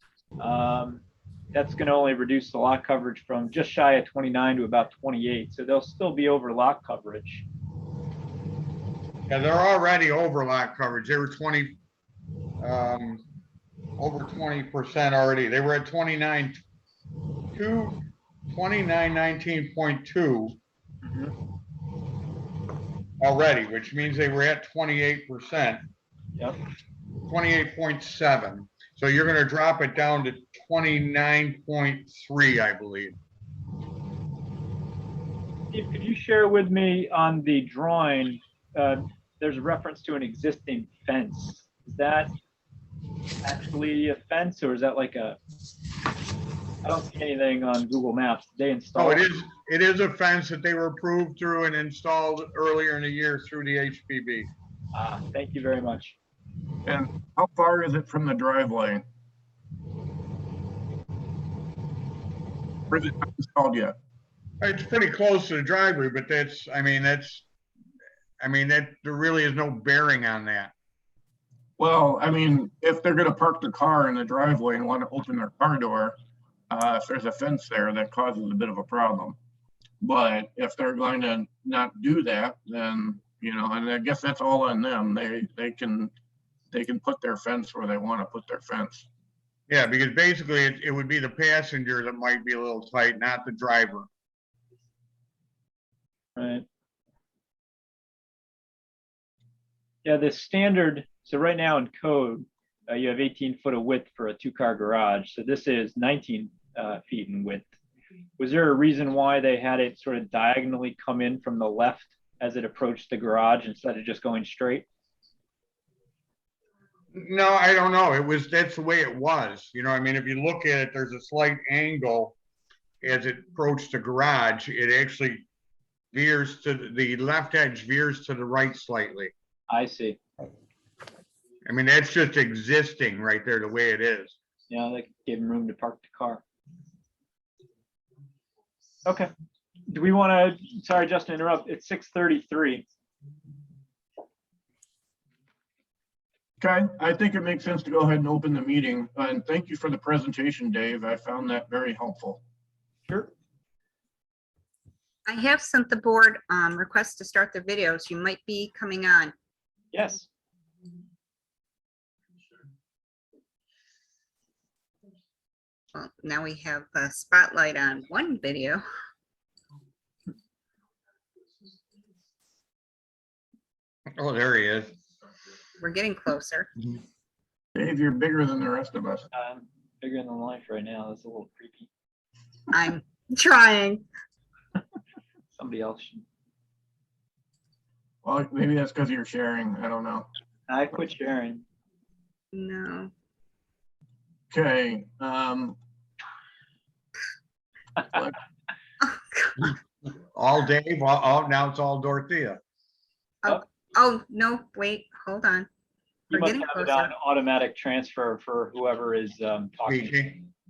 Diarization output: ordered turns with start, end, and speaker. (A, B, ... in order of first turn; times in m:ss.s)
0:00.4-0:07.4 A
0:09.3-0:11.8 B
0:12.6-0:13.2 B
0:14.0-0:16.6 B
0:17.5-0:20.6 B
0:21.0-0:21.3 A
0:23.2-0:25.8 B
0:27.3-0:33.2 B
0:35.7-0:42.3 A
0:43.4-0:45.4 A
0:46.8-0:49.3 A
0:48.9-0:54.5 B
0:54.9-0:56.2 A
0:56.8-0:59.0 C
1:02.9-1:03.9 C
1:04.6-1:07.5 B
1:08.4-1:10.7 B
1:11.8-1:16.2 C
1:16.7-1:19.4 C
1:20.0-1:26.1 C
1:26.7-1:29.1 C
1:29.7-1:34.1 B
1:36.4-1:36.6 A
1:40.0-1:47.6 A
1:48.4-1:54.8 A
1:57.1-2:02.4 B
2:03.0-2:05.5 B
2:06.1-2:09.3 B
2:09.7-2:10.2 A
2:11.6-2:14.4 B
2:14.7-2:16.4 A
2:19.0-2:19.3 A
2:19.9-2:22.8 A
2:26.6-2:32.4 C
2:35.2-2:39.3 D
2:39.9-2:40.3 A
2:45.9-2:48.8 D
2:54.1-2:54.9 B
2:55.8-2:56.7 D
2:57.7-2:59.3 C
2:59.3-3:01.9 A
3:02.7-3:04.0 D
3:05.5-3:06.2 A
3:08.2-3:10.3 C
3:10.7-3:11.6 A
3:12.5-3:13.1 D
3:14.5-3:15.8 C
3:18.1-3:18.4 C
3:19.0-3:19.7 D
3:20.3-3:22.6 B
3:23.4-3:25.7 D
3:26.3-3:30.1 A
3:26.3-3:27.1 D
3:29.9-3:30.4 B